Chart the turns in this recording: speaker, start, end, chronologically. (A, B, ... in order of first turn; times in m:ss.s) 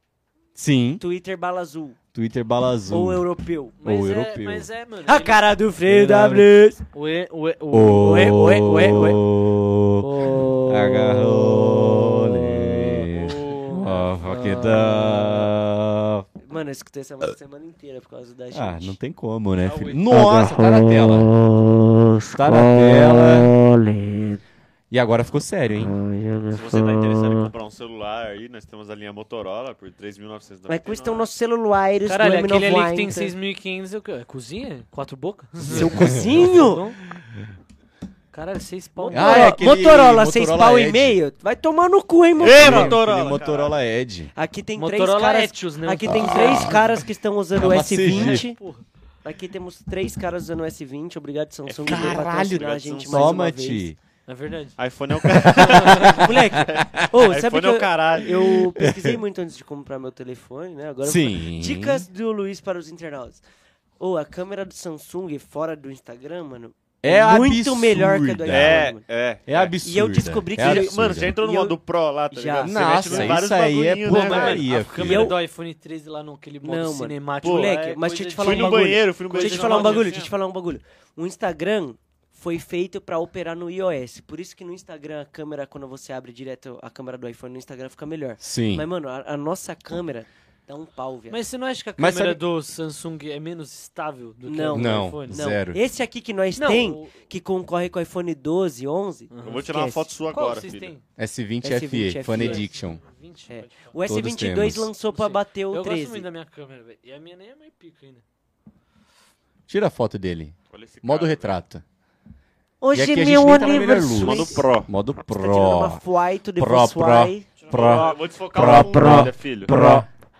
0:00.5-0:01.0 A
0:01.0-0:02.0 B
0:02.1-0:03.2 A
0:02.9-0:03.7 B
0:03.8-0:05.5 C
0:03.8-0:04.7 A
0:05.0-0:06.8 B
0:05.9-0:06.4 A
0:06.9-0:08.4 C
0:07.7-0:16.2 A
0:08.0-0:09.3 B
0:10.0-0:11.1 B
0:13.4-0:14.7 C
0:13.4-0:15.2 B
0:16.4-0:19.0 B
0:18.5-0:21.3 A
0:19.6-0:20.0 C
0:20.1-0:24.4 B
0:22.3-0:23.5 A
0:24.9-0:25.9 A
0:25.9-0:27.5 B
0:26.5-0:31.3 D
0:30.7-0:33.3 B
0:32.0-0:37.0 C
0:35.6-0:36.5 A
0:35.6-0:36.8 B
0:38.3-0:39.6 C
0:39.0-0:43.0 B
0:39.1-0:41.2 A
0:42.4-0:43.8 D
0:42.4-0:44.3 A
0:44.3-0:48.6 B
0:44.8-0:46.9 C
0:46.1-0:46.8 A
0:47.6-0:48.4 A
0:47.9-0:48.8 C
0:49.2-0:53.9 B
0:51.6-0:53.4 D
0:51.8-0:54.0 A
0:54.3-0:54.8 C
0:54.8-0:58.4 D
0:55.2-0:56.9 A
0:55.6-0:56.0 C
0:56.1-1:03.4 B
0:58.7-0:59.2 A
1:01.0-1:02.0 A
1:04.0-1:09.0 B
1:07.0-1:08.9 A
1:08.5-1:09.7 D
1:09.5-1:11.4 A
1:09.8-1:11.8 B
1:10.6-1:14.7 D
1:12.3-1:13.4 B
1:12.6-1:15.4 A
1:14.0-1:20.2 C
1:14.9-1:15.4 B
1:16.6-1:31.4 B
1:17.4-1:17.7 D
1:18.4-1:20.3 D
1:28.4-1:28.8 A
1:31.3-1:35.5 C
1:32.0-1:32.4 A
1:34.4-1:40.1 B
1:34.7-1:35.8 A
1:36.6-1:37.2 C
1:39.3-1:39.7 C
1:39.4-1:40.9 D
1:40.3-1:41.0 C
1:41.2-1:43.0 A
1:41.6-1:42.7 B
1:42.3-1:43.9 C
1:43.5-1:46.3 B
1:44.1-1:44.9 A
1:45.1-1:48.2 C
1:49.7-1:51.8 A
1:50.7-1:51.6 D
1:52.8-1:54.6 B
1:52.9-1:56.0 A
1:54.1-1:54.9 D
1:55.3-1:57.5 B
1:56.6-2:00.0 A
1:57.6-1:58.2 C
1:57.7-1:59.7 D